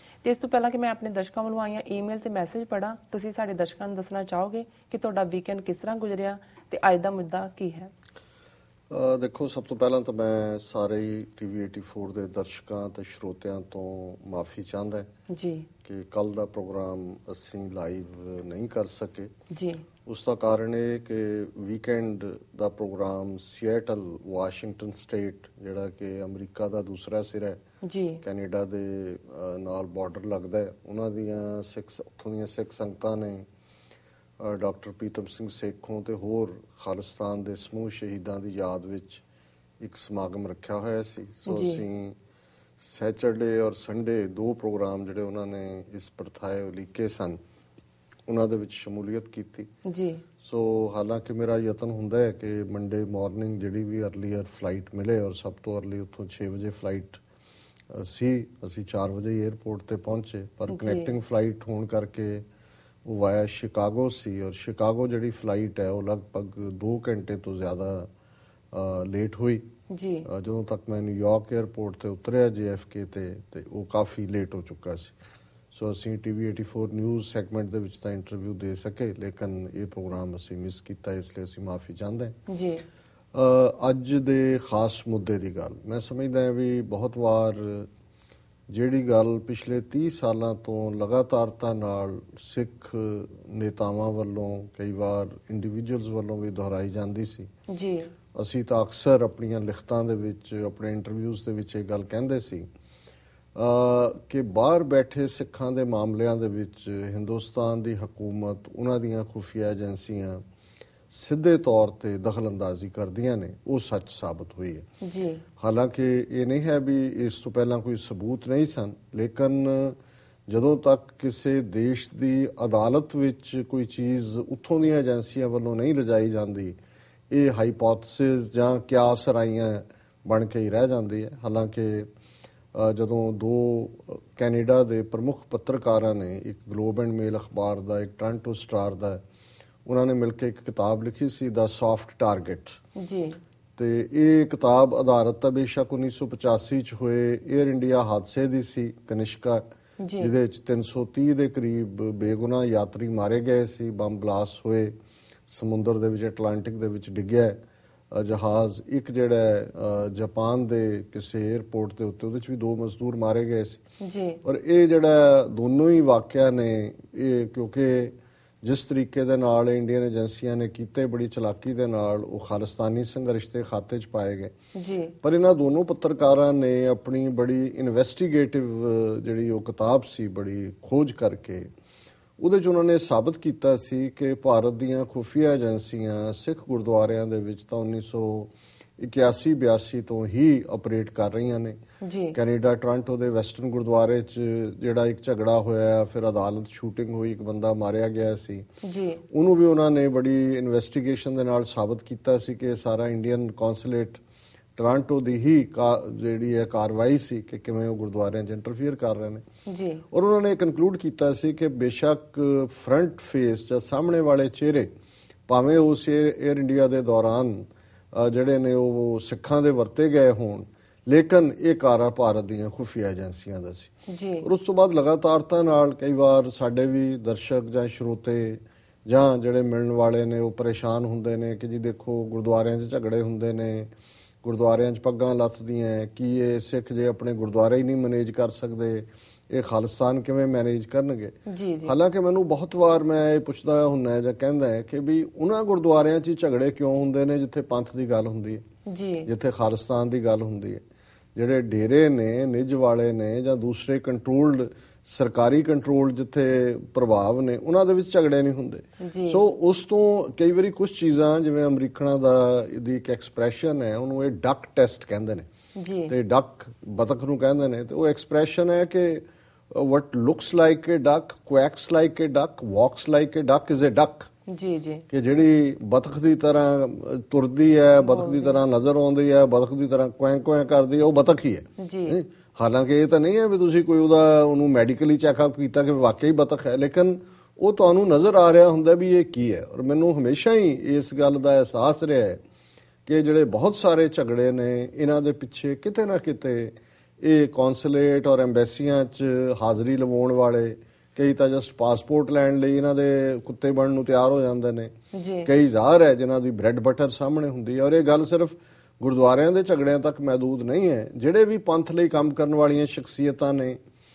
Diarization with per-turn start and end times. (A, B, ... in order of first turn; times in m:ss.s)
0:00.2-0:07.9 A
0:08.9-0:15.1 B
0:15.3-0:15.7 A
0:15.8-0:19.3 B
0:19.5-0:19.8 A
0:20.0-0:27.6 B
0:27.8-0:28.2 A
0:28.2-0:33.5 B
0:34.4-0:39.2 B
0:39.8-0:42.2 B
0:41.5-0:41.8 A
0:42.8-0:47.4 B
0:48.3-0:49.7 B
0:49.8-0:50.2 A
0:50.4-0:57.2 B
0:57.9-1:02.4 B
1:00.7-1:01.1 A
1:03.0-1:08.1 B
1:08.7-1:09.7 B
1:09.9-1:10.3 A
1:10.2-1:15.1 B
1:15.7-1:22.4 B
1:22.5-1:22.8 A
1:23.3-1:27.9 B
1:28.7-1:37.5 B
1:37.7-1:38.1 A
1:38.3-1:42.7 B
1:43.5-1:50.4 B
1:51.1-1:54.9 B
1:55.0-1:55.4 A
1:55.6-2:06.8 B
2:07.3-2:12.1 B
2:12.7-2:19.2 B
2:19.8-2:22.8 B
2:23.0-2:23.4 A
2:23.8-2:29.6 B
2:30.0-2:30.3 A
2:30.2-2:34.9 B
2:35.5-2:37.6 B
2:38.1-2:43.8 B
2:44.0-2:44.4 A
2:44.4-2:54.5 B
2:54.7-2:55.1 A
2:55.2-3:01.7 B
3:02.4-3:11.8 B
3:12.0-3:12.4 A
3:12.3-3:18.7 B
3:18.8-3:19.2 A
3:19.3-3:24.2 B
3:24.8-3:29.4 B
3:29.7-3:30.0 A
3:30.1-3:34.9 B
3:35.5-3:53.9 B
3:44.1-3:44.5 A
3:54.4-4:08.6 B
4:01.5-4:01.9 A
4:08.9-4:09.3 A
4:09.2-4:10.8 B
4:11.3-4:25.5 B
4:19.0-4:19.4 A
4:25.8-4:26.1 A
4:26.1-4:34.3 B
4:34.5-4:35.0 A
4:35.1-4:52.4 B
4:38.0-4:38.6 A
4:41.8-4:42.2 A
4:53.0-5:04.9 B
5:05.1-5:05.5 A
5:05.4-5:13.8 B